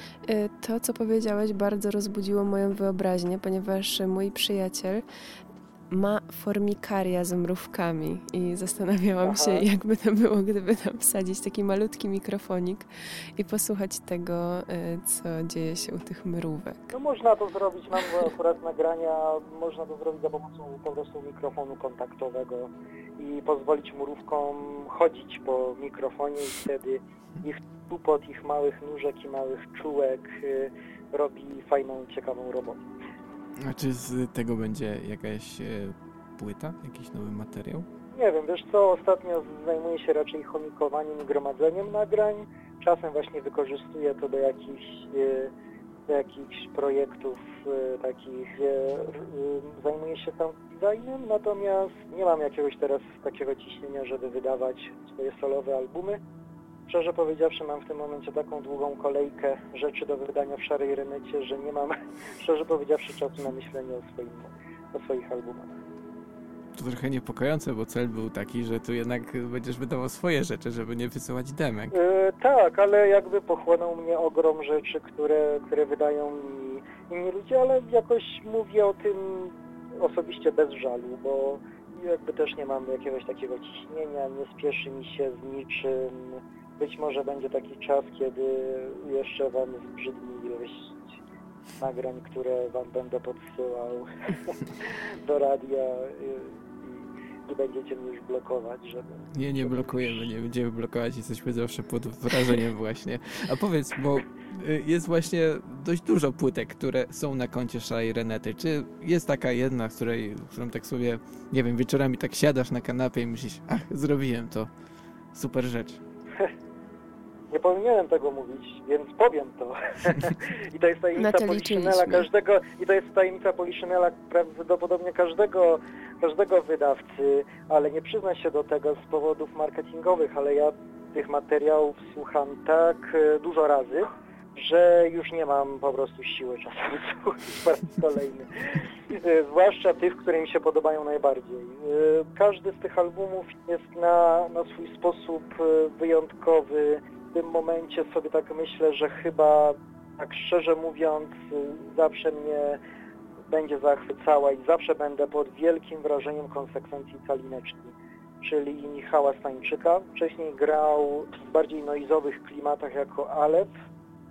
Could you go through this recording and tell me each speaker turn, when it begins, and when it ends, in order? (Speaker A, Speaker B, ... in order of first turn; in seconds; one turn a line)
Speaker A: 0.3-5.0
Speaker A: 5.9-16.9
Speaker B: 9.2-9.6
Speaker B: 16.9-32.8
Speaker C: 33.5-37.9
Speaker B: 38.1-45.5
Speaker B: 46.1-56.2
Speaker B: 56.9-65.8
Speaker C: 66.7-72.0
Speaker B: 71.9-91.2
Speaker B: 91.8-100.1
Speaker C: 99.3-114.7
Speaker C: 115.3-116.0
Speaker B: 117.5-152.8
Speaker A: 121.2-122.3
Speaker B: 153.5-163.7